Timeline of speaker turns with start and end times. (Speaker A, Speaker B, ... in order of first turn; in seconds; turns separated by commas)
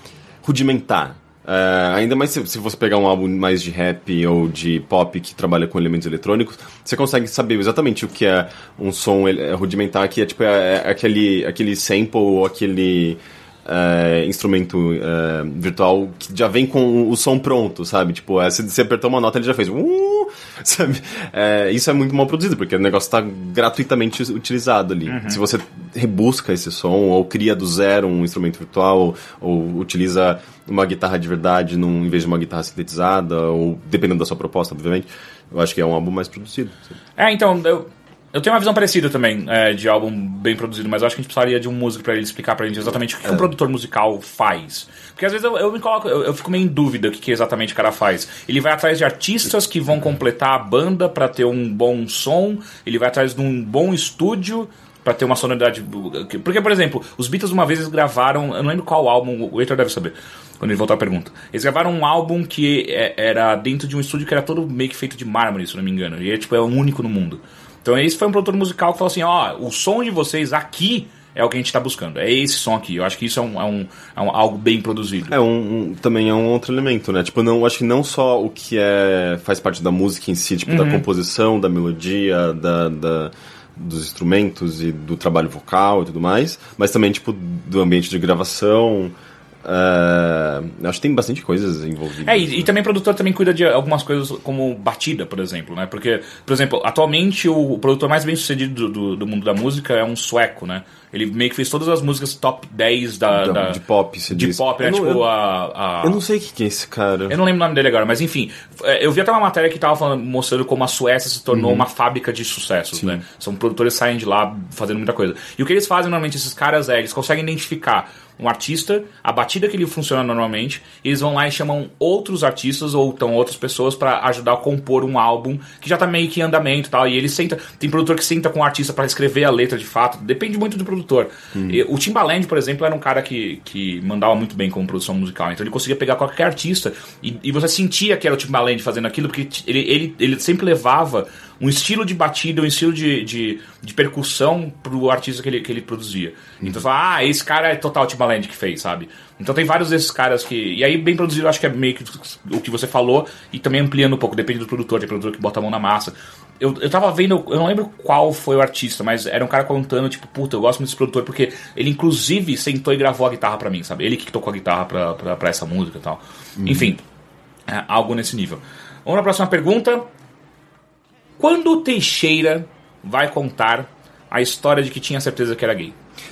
Speaker A: 0.4-36.9, Speaker B: 25.1-25.4, Speaker B: 37.2-75.3, Speaker A: 43.2-43.5, Speaker A: 75.3-92.7, Speaker B: 80.7-81.0, Speaker B: 92.2-106.2, Speaker A: 103.3-105.3, Speaker A: 106.0-107.4, Speaker B: 107.3-167.0, Speaker A: 111.5-111.8, Speaker A: 112.9-113.2, Speaker A: 131.5-131.8, Speaker A: 166.6-166.9, Speaker B: 167.7-170.1, Speaker B: 171.4-175.9